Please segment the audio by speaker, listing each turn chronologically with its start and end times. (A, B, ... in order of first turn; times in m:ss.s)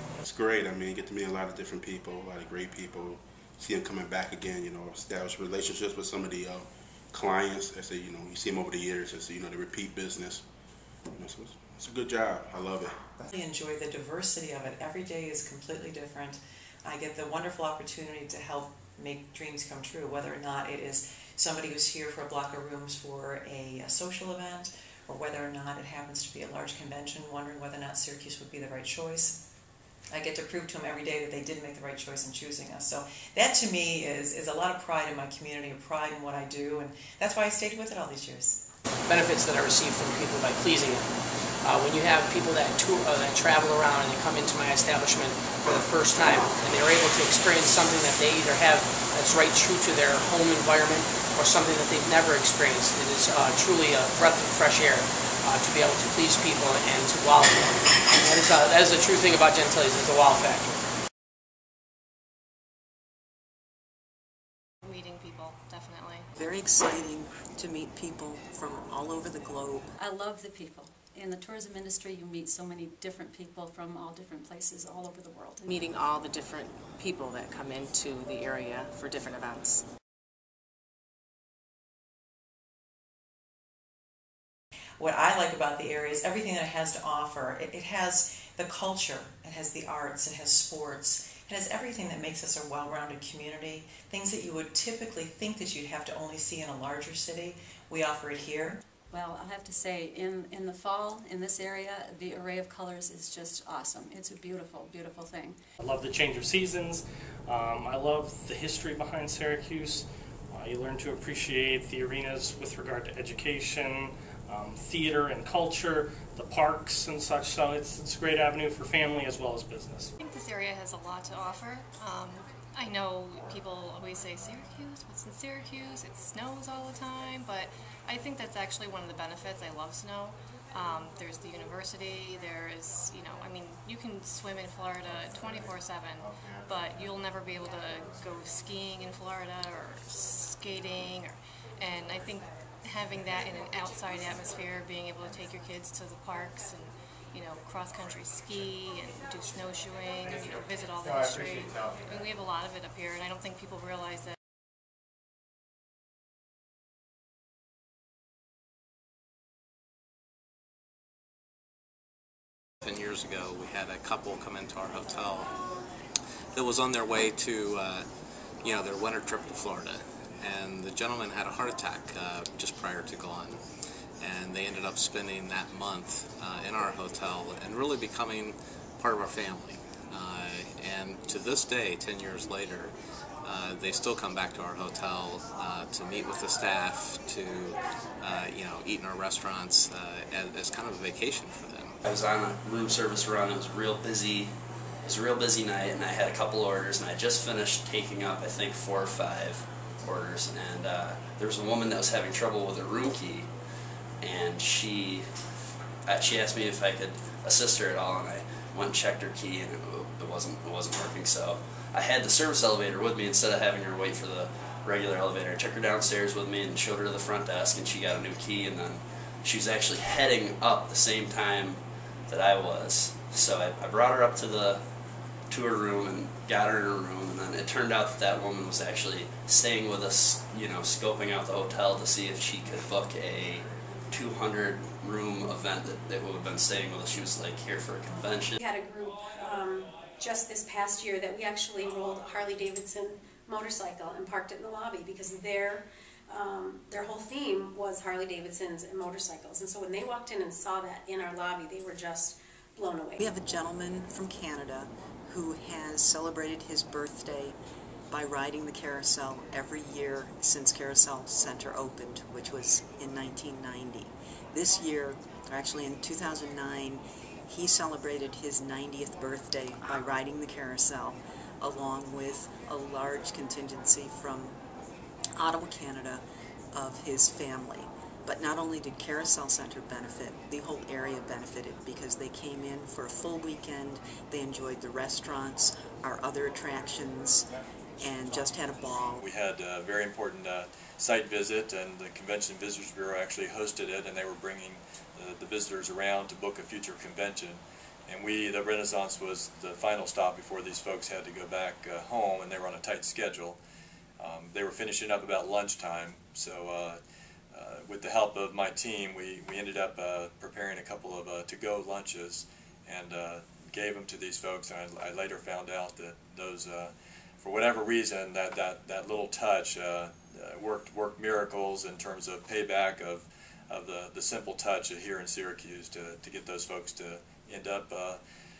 0:00.2-0:10.4 A
0:11.1-0:13.0 A
0:13.3-0:29.4 B
0:30.1-0:38.6 B
0:39.1-1:00.8 C
1:04.8-1:06.3 D
1:06.4-1:09.9 E
1:10.0-1:15.7 F
1:15.7-1:19.8 G
1:25.0-1:38.8 B
1:39.1-1:45.6 F
1:45.8-2:00.1 H
2:00.2-2:34.3 D
2:42.8-2:45.5 I
2:46.5-2:48.1 I
2:48.6-2:53.6 I
2:54.2-3:02.9 I
3:03.4-3:12.0 I
3:12.0-3:14.5 J
3:15.0-3:23.5 J
3:24.2-3:25.2 J
3:26.0-3:44.8 J
3:45.5-3:58.6 J
3:58.6-4:13.2 K
4:13.2-4:17.6 E
4:18.1-4:34.6 E
4:35.4-4:47.4 E
4:48.0-4:49.2 E
4:49.2-5:03.6 L
5:04.2-5:07.0 L
5:07.5-5:28.2 L